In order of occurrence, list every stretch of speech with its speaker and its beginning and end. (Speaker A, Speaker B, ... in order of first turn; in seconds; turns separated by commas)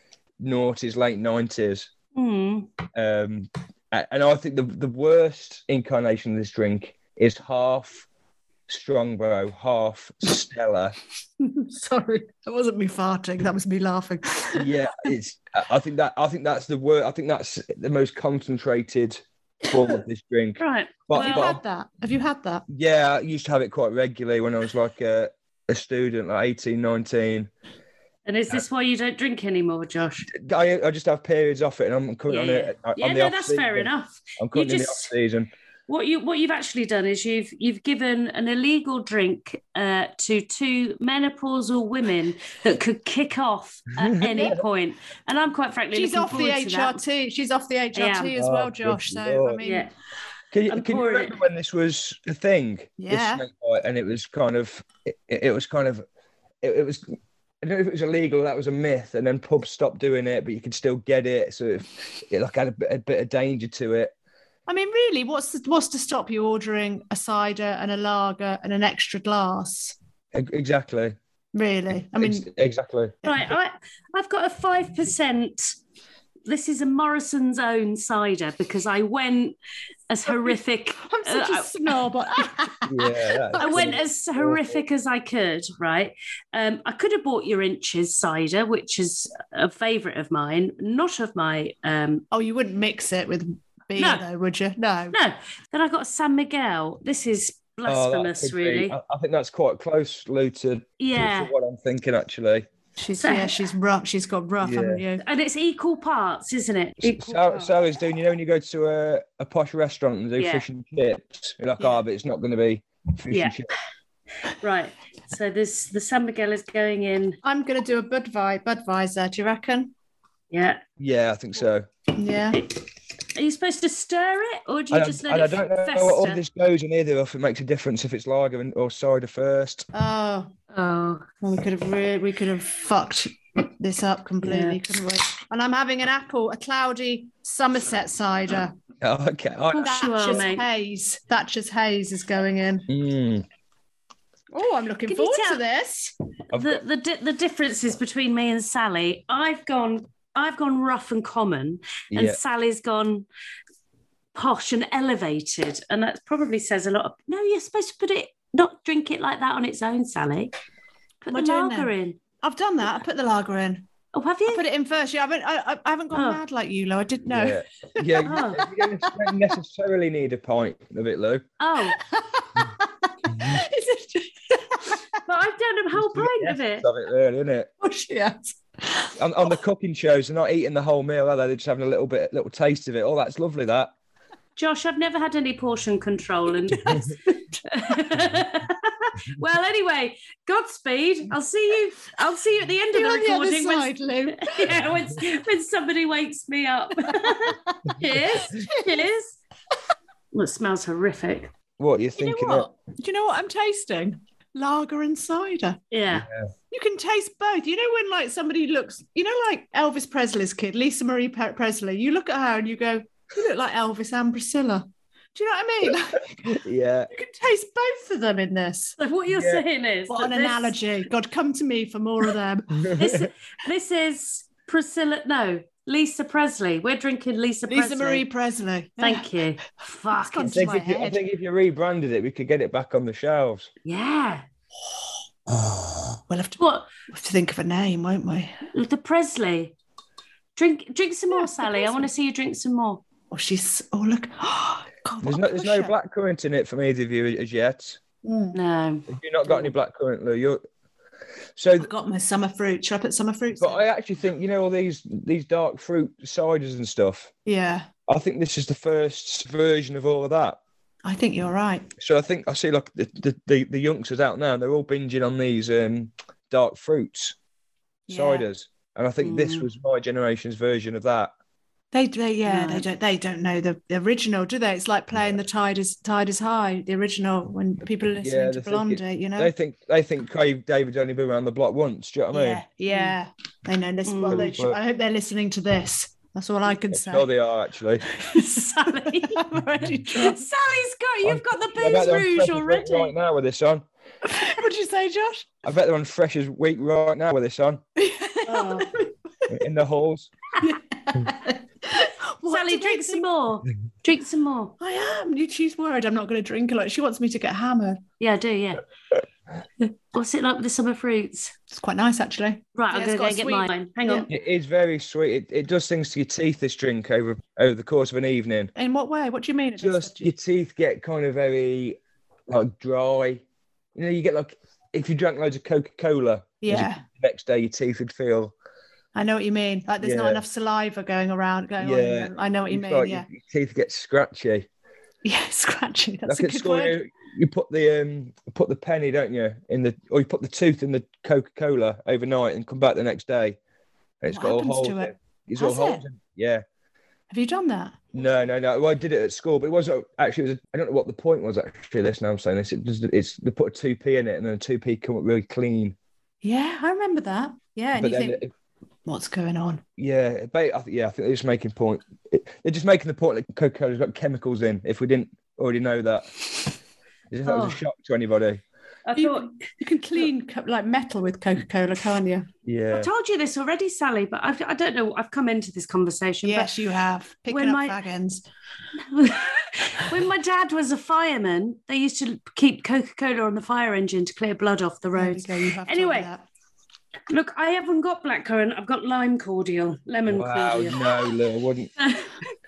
Speaker A: 0.4-1.9, Speaker B: 2.1-2.7, Speaker A: 2.9-8.1, Speaker A: 8.7-11.0, Speaker C: 11.4-15.1, Speaker A: 14.5-21.6, Speaker B: 20.6-21.5, Speaker C: 21.1-22.6, Speaker A: 22.7-27.5, Speaker B: 28.2-30.3, Speaker A: 30.3-35.5, Speaker B: 32.3-35.1, Speaker B: 35.9-47.0, Speaker A: 44.0-44.6, Speaker C: 45.9-49.9, Speaker B: 47.9-48.3, Speaker A: 48.4-49.6, Speaker B: 49.6-49.9, Speaker A: 50.5-56.0, Speaker B: 50.7-51.4, Speaker C: 53.0-53.4, Speaker A: 56.6-57.1, Speaker A: 57.6-64.1, Speaker C: 64.7-70.0, Speaker A: 70.3-71.2, Speaker C: 71.5-72.5, Speaker A: 72.1-73.1, Speaker B: 73.2-75.8, Speaker B: 76.5-79.5, Speaker B: 80.1-81.7, Speaker C: 80.3-84.0, Speaker A: 82.9-84.8, Speaker B: 83.6-92.2, Speaker C: 92.3-95.2, Speaker B: 94.0-94.2, Speaker B: 95.1-99.0, Speaker A: 97.8-102.7, Speaker B: 101.0-101.5, Speaker C: 103.0-105.2, Speaker B: 103.2-103.6, Speaker A: 104.6-105.0, Speaker B: 105.2-107.7, Speaker A: 107.0-113.7, Speaker B: 110.4-110.6, Speaker B: 113.3-113.6, Speaker B: 114.6-117.4, Speaker C: 117.4-119.9, Speaker B: 120.5-120.8, Speaker A: 121.0-121.8, Speaker C: 122.2-122.6, Speaker B: 122.5-122.8, Speaker B: 123.3-126.4, Speaker A: 124.9-129.9, Speaker C: 129.9-130.5, Speaker B: 130.7-131.3, Speaker C: 131.4-138.7, Speaker B: 134.4-134.8, Speaker A: 139.0-139.9, Speaker B: 139.7-140.6, Speaker C: 139.8-142.9, Speaker A: 142.9-143.4, Speaker C: 144.5-146.1, Speaker B: 145.1-145.6, Speaker A: 146.5-146.8, Speaker B: 146.5-153.2, Speaker A: 152.1-152.4, Speaker B: 154.3-160.5, Speaker B: 161.2-162.2, Speaker C: 161.3-163.9, Speaker B: 164.1-164.6, Speaker C: 164.5-168.4, Speaker B: 166.1-166.4, Speaker A: 167.3-171.4, Speaker B: 168.2-168.6, Speaker C: 169.0-169.4, Speaker B: 171.6-172.0, Speaker C: 171.9-175.0, Speaker A: 173.3-173.6, Speaker B: 175.2-176.9, Speaker A: 175.9-177.7, Speaker C: 177.8-179.5, Speaker A: 179.2-183.9, Speaker B: 184.6-199.4, Speaker C: 186.8-187.1, Speaker C: 192.9-194.8, Speaker C: 197.0-197.8, Speaker C: 198.6-199.1, Speaker B: 200.3-201.5, Speaker A: 201.8-202.7, Speaker C: 202.2-205.8, Speaker B: 205.9-206.2, Speaker A: 206.1-206.4, Speaker C: 206.7-216.6, Speaker A: 216.4-217.1, Speaker C: 217.1-219.0, Speaker B: 219.0-220.7, Speaker A: 219.3-219.6, Speaker C: 220.1-222.9, Speaker A: 222.8-223.3, Speaker B: 222.9-228.2, Speaker C: 227.7-229.4, Speaker B: 229.0-230.7, Speaker C: 230.1-231.2, Speaker A: 230.5-233.7, Speaker B: 233.8-234.4, Speaker C: 236.3-238.6, Speaker B: 236.6-236.9, Speaker B: 238.7-239.7, Speaker B: 240.6-243.0, Speaker C: 241.3-242.0, Speaker C: 243.3-245.9, Speaker A: 245.2-248.0, Speaker C: 248.2-248.6, Speaker B: 248.5-249.7, Speaker A: 249.1-250.6, Speaker A: 251.6-251.9, Speaker C: 251.8-253.8, Speaker A: 253.6-257.3, Speaker C: 257.4-257.9, Speaker A: 258.1-260.6, Speaker C: 261.0-261.9, Speaker A: 262.0-267.4, Speaker C: 268.1-268.5, Speaker A: 268.1-271.3, Speaker B: 269.2-269.6, Speaker C: 271.9-279.5, Speaker B: 272.4-272.9, Speaker A: 278.2-282.6, Speaker C: 282.3-287.3, Speaker B: 282.9-283.1, Speaker B: 284.1-284.5, Speaker A: 284.3-284.8, Speaker A: 286.9-288.0, Speaker C: 288.1-290.4, Speaker B: 288.2-293.1, Speaker A: 291.2-293.8, Speaker C: 294.2-295.6, Speaker A: 295.6-297.8, Speaker C: 297.9-299.1, Speaker B: 298.4-298.9, Speaker A: 299.5-300.3, Speaker C: 300.6-303.3, Speaker B: 302.5-304.7, Speaker C: 304.8-308.0, Speaker B: 308.2-308.8, Speaker B: 309.8-311.5, Speaker C: 311.7-314.3, Speaker B: 312.7-314.3, Speaker A: 314.3-318.7, Speaker C: 318.7-320.3, Speaker A: 319.8-323.4, Speaker A: 323.9-328.5, Speaker C: 326.6-327.0, Speaker C: 329.1-333.3, Speaker A: 330.0-330.4, Speaker A: 331.8-334.7, Speaker C: 335.2-336.9, Speaker A: 336.2-343.6, Speaker A: 344.2-346.6, Speaker C: 344.3-346.0, Speaker C: 347.3-348.2, Speaker A: 348.1-355.9, Speaker C: 356.4-358.4, Speaker A: 358.0-358.5, Speaker C: 359.1-359.8, Speaker A: 360.0-366.3, Speaker A: 367.3-368.6, Speaker B: 367.4-367.8, Speaker B: 369.1-369.5, Speaker C: 369.1-372.5, Speaker A: 372.6-373.1, Speaker B: 372.9-376.7, Speaker C: 376.4-378.4, Speaker B: 377.5-378.0, Speaker B: 379.0-386.3, Speaker C: 385.1-386.4, Speaker B: 387.3-391.1, Speaker A: 390.3-391.9, Speaker B: 392.0-392.4